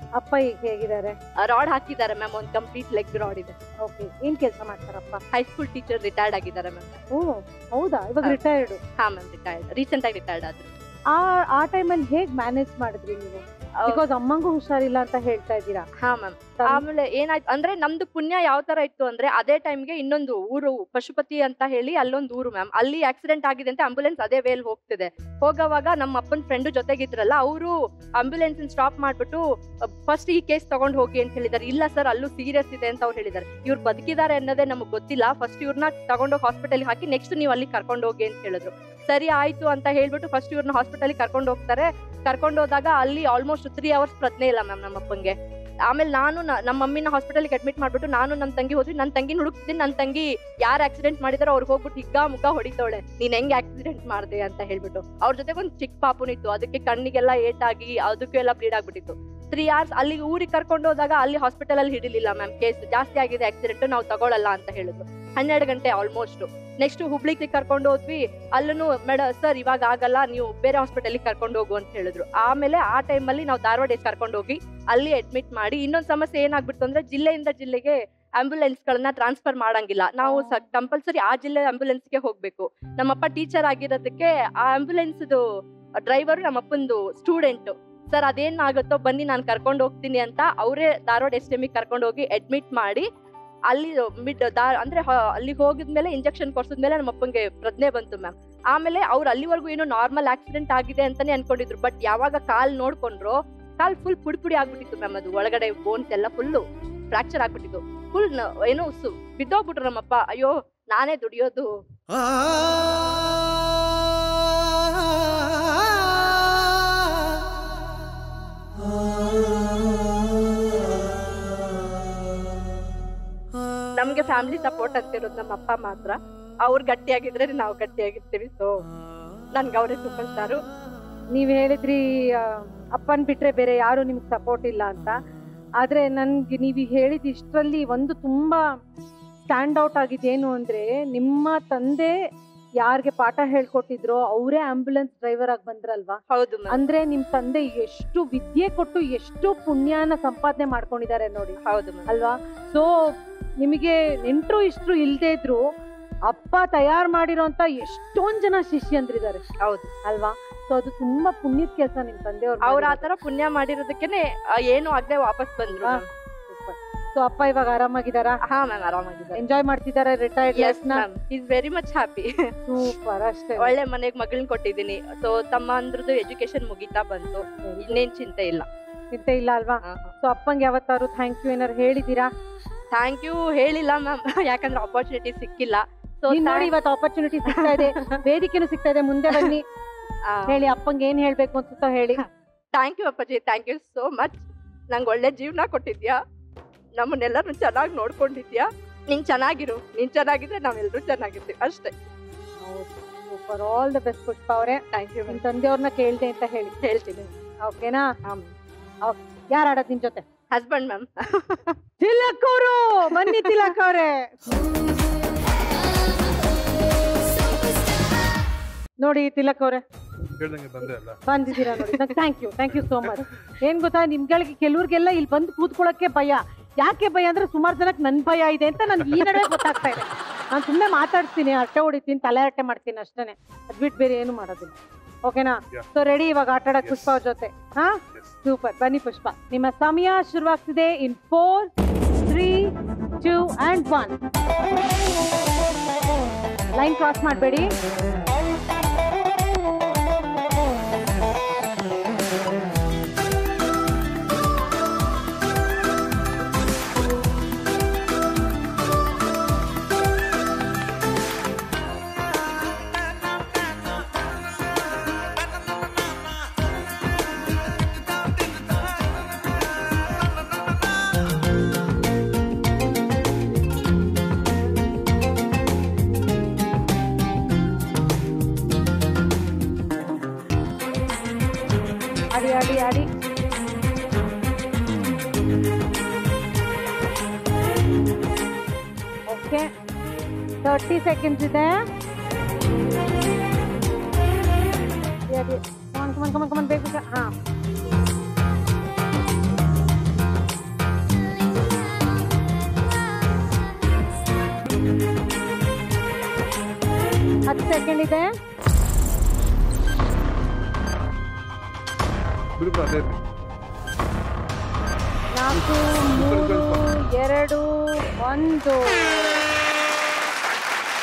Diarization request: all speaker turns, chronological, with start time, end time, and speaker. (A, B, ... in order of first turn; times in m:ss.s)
0:00.2-0:01.2 A
0:01.4-0:03.6 B
0:03.8-0:05.2 A
0:05.3-0:07.0 B
0:07.1-0:08.8 A
0:09.0-0:10.7 B
0:11.1-0:15.9 A
0:16.0-0:29.4 B
0:30.0-0:45.3 B
0:45.9-1:25.4 B
1:20.2-1:20.6 A
1:26.1-1:33.1 B
1:33.7-1:51.7 B
2:04.0-2:08.8 B
2:09.6-2:10.6 B
2:11.4-2:15.2 A
2:15.8-2:18.6 A
2:19.5-2:22.1 A
2:22.8-2:26.2 A
2:26.3-2:26.8 B
2:26.7-2:32.9 A
2:31.7-2:32.1 B
2:33.6-2:35.6 A
2:36.3-2:39.4 A
2:40.1-2:43.1 A
2:42.6-2:46.0 B
2:45.8-2:48.4 A
2:48.5-2:49.4 B
2:49.4-2:51.0 A
2:50.4-2:52.3 B
2:52.7-2:53.7 A
2:53.6-2:58.7 B
2:57.6-2:58.0 A
2:59.1-3:02.3 A
2:59.8-3:00.1 B
3:02.9-3:06.7 B
3:06.3-3:09.6 A
3:07.5-3:08.2 B
3:10.3-3:10.6 B
3:10.5-3:12.2 A
3:12.7-3:16.2 B
3:17.0-3:21.9 B
3:22.6-3:26.8 A
3:24.9-3:25.4 B
3:26.8-3:27.3 B
3:27.7-3:28.1 A
3:28.2-3:28.5 B
3:29.0-3:30.2 A
3:30.5-3:31.8 B
3:32.0-3:34.4 A
3:33.3-3:33.7 B
3:39.0-3:39.8 A
3:40.4-3:41.2 C
3:41.3-3:54.7 A
3:42.7-3:43.3 C
3:48.9-3:49.4 C
3:55.2-4:01.7 A
3:56.8-3:57.2 C
4:02.3-4:04.2 A
4:06.8-4:07.7 A
4:42.3-4:43.1 A
4:49.3-4:49.7 A
4:50.6-4:51.8 A
4:55.3-4:57.3 A
5:07.5-5:08.3 A
5:12.6-5:13.3 C
5:15.4-5:19.4 A
5:15.5-5:16.8 C